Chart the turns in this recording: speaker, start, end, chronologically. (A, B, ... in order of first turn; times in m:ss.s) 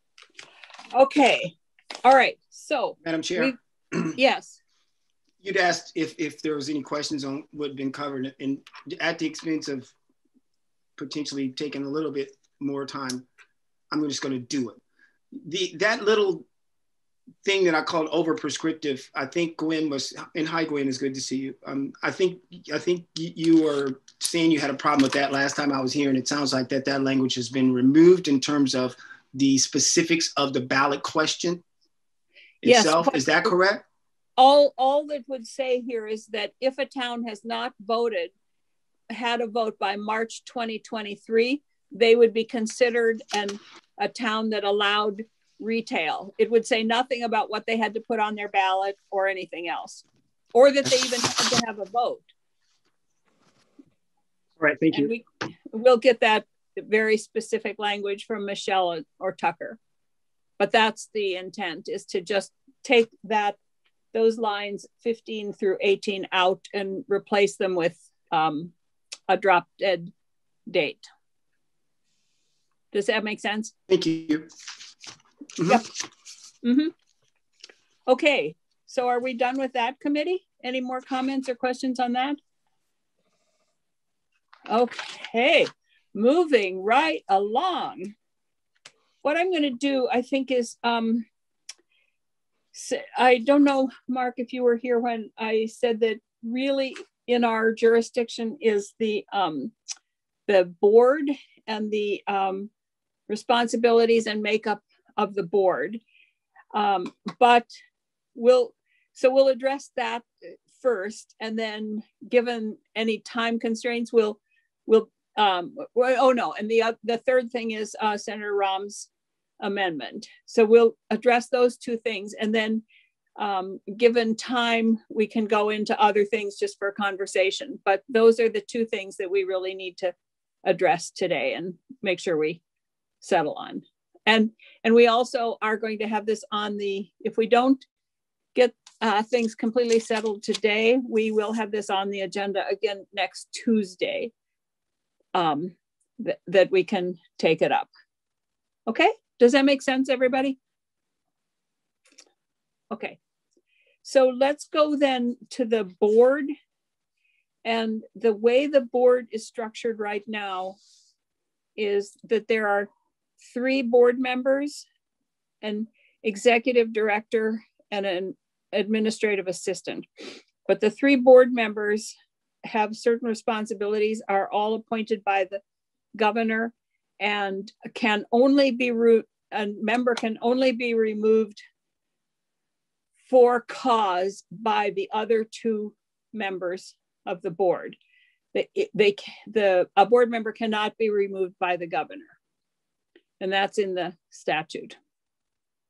0:00.9-0:03.6 A
0:03.0-0:04.2 B
0:04.2-0:04.6 A
0:05.4-0:09.9 B
0:11.0-0:13.2 B
0:13.9-0:14.8 B
0:15.4-0:16.4 B
0:17.4-0:31.6 B
0:32.6-0:33.8 B
0:32.6-0:33.5 A
0:34.4-0:38.3 A
0:39.1-0:52.3 A
0:54.6-0:55.1 B
0:54.9-0:59.8 A
1:00.6-1:03.6 A
1:04.1-1:08.7 A
1:09.3-1:10.1 A
1:10.7-1:11.1 A
1:12.9-1:13.7 A
1:13.9-1:14.5 B
1:15.6-1:15.8 B
1:16.6-1:16.9 A
1:18.1-1:22.4 A
1:24.7-1:28.1 A
1:29.2-1:31.2 A
1:32.7-1:39.7 A
1:40.5-1:42.7 A
1:43.3-1:46.0 A
1:46.7-1:47.7 A
1:48.3-1:59.1 A
1:59.6-2:02.8 A
2:03.4-2:10.1 A
2:10.6-2:12.6 A
2:13.2-2:17.8 A
2:18.5-2:24.3 A
2:25.3-2:27.9 A
2:28.9-2:30.6 A
2:32.9-2:33.2 A
2:34.0-2:36.5 A
2:37.6-2:40.8 A
2:41.8-2:42.9 A
2:43.4-2:44.8 A
2:45.6-2:50.1 A
2:50.6-2:52.1 A
2:52.6-2:55.6 A
2:56.2-3:01.6 A
3:03.2-3:08.0 A
3:08.5-3:12.3 A
3:13.4-3:15.0 A